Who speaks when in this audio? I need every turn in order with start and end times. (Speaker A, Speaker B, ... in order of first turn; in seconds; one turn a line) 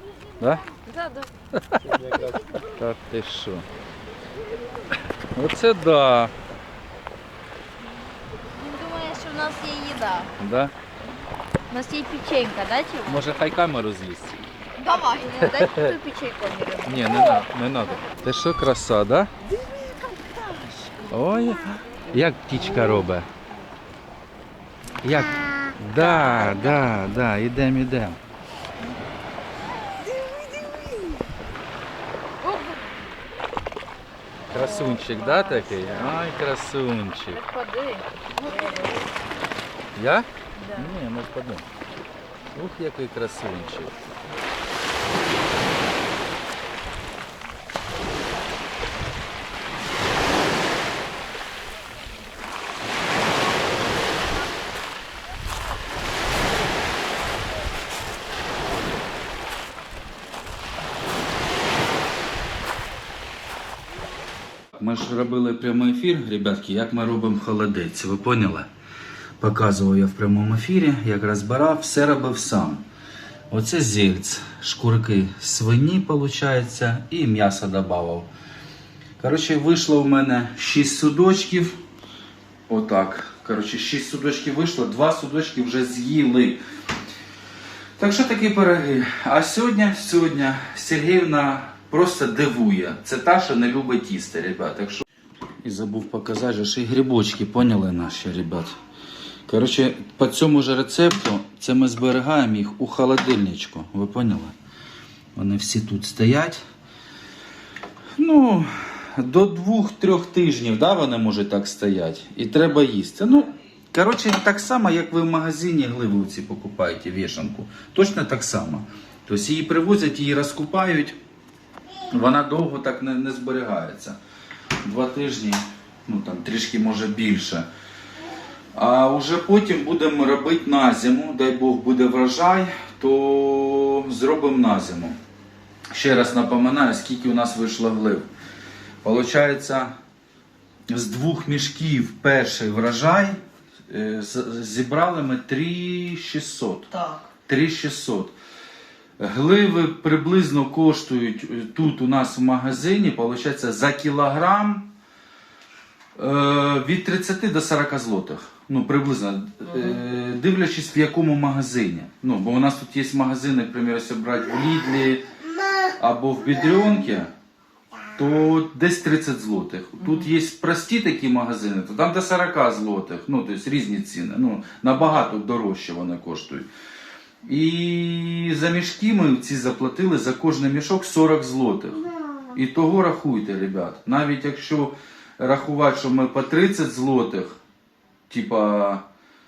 Speaker A: 0.4-0.6
Speaker B: 0.8-1.3
Speaker A: 1.5-3.7
Speaker A: 5.3-6.3
Speaker B: 8.5-10.3
Speaker A: 10.4-10.7
Speaker B: 11.7-13.4
Speaker A: 13.1-14.4
Speaker B: 14.8-17.4
Speaker A: 15.4-16.0
Speaker A: 16.9-19.3
Speaker C: 19.6-21.1
Speaker A: 21.1-23.3
Speaker A: 25.0-28.2
Speaker B: 26.0-26.8
Speaker B: 32.4-32.8
Speaker A: 34.5-37.4
Speaker B: 34.5-36.2
Speaker B: 37.3-39.0
Speaker C: 38.4-39.0
Speaker A: 40.0-41.7
Speaker B: 40.6-40.9
Speaker A: 42.5-44.0
Speaker A: 64.8-68.7
Speaker A: 69.4-72.8
Speaker A: 73.5-78.3
Speaker A: 79.2-81.8
Speaker A: 82.7-86.6
Speaker A: 88.0-95.0
Speaker A: 95.6-98.8
Speaker A: 99.5-104.5
Speaker A: 105.4-106.6
Speaker A: 108.2-121.2
Speaker A: 122.1-124.2
Speaker A: 124.8-127.7
Speaker A: 128.8-135.2
Speaker A: 135.9-138.3
Speaker A: 139.0-140.0
Speaker A: 140.9-143.4
Speaker A: 143.9-146.9
Speaker C: 146.9-147.3
Speaker A: 147.5-148.3
Speaker A: 149.2-154.9
Speaker A: 156.2-165.3
Speaker A: 166.0-167.3
Speaker A: 168.2-176.7
Speaker C: 170.0-170.3
Speaker A: 177.4-187.6
Speaker A: 188.3-189.1